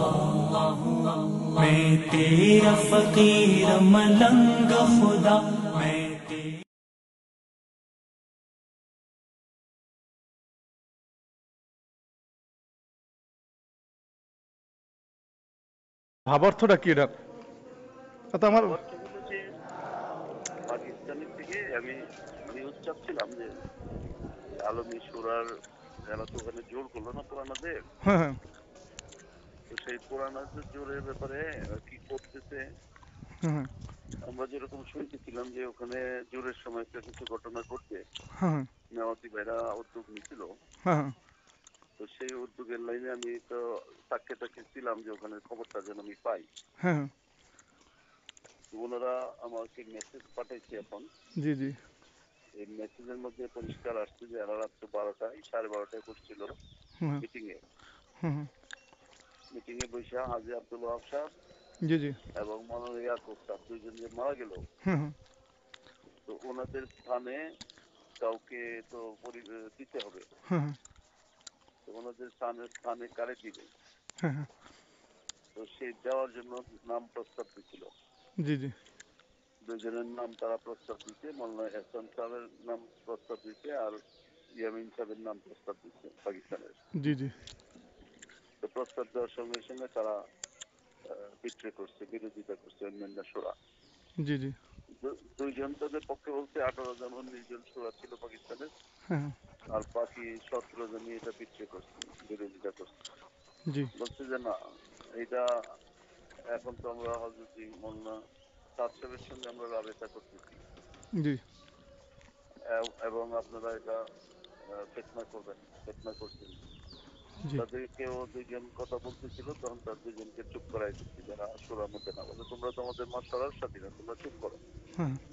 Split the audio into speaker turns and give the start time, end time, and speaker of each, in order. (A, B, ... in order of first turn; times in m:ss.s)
0:01.5-0:06.6 A
0:16.3-0:17.1 B
0:18.3-0:18.8 B
0:18.6-0:19.4 C
0:20.7-0:23.5 C
0:24.6-0:25.5 C
0:26.1-0:27.8 C
0:28.0-0:28.4 B
0:29.7-0:32.6 C
0:33.4-0:33.7 B
0:34.2-0:38.0 C
0:38.4-0:38.7 B
0:38.9-0:40.5 C
0:40.8-0:41.2 B
0:42.0-0:46.5 C
0:46.8-0:47.1 B
0:48.7-0:51.1 C
0:51.4-0:51.8 B
0:52.6-0:56.6 C
0:57.2-0:57.6 C
0:58.2-0:58.5 B
0:59.5-1:01.3 C
1:01.8-1:02.2 B
1:02.4-1:04.6 C
1:04.8-1:05.2 B
1:06.3-1:07.5 C
1:08.2-1:10.3 C
1:10.5-1:10.8 B
1:11.9-1:13.7 C
1:14.2-1:14.5 B
1:15.6-1:17.9 C
1:18.4-1:18.8 B
1:19.7-1:24.0 C
1:24.6-1:26.8 C
1:27.0-1:27.3 B
1:28.6-1:30.2 C
1:31.1-1:33.6 C
1:34.2-1:34.6 B
1:35.0-1:38.7 C
1:39.1-1:39.4 B
1:39.7-1:42.9 C
1:43.7-1:43.9 B
1:43.9-1:44.6 C
1:45.2-1:45.5 C
1:46.5-1:48.2 C
1:48.8-1:50.6 C
1:51.2-1:51.4 B
1:52.6-1:54.0 C
1:54.6-1:56.6 C
1:57.6-2:04.6 C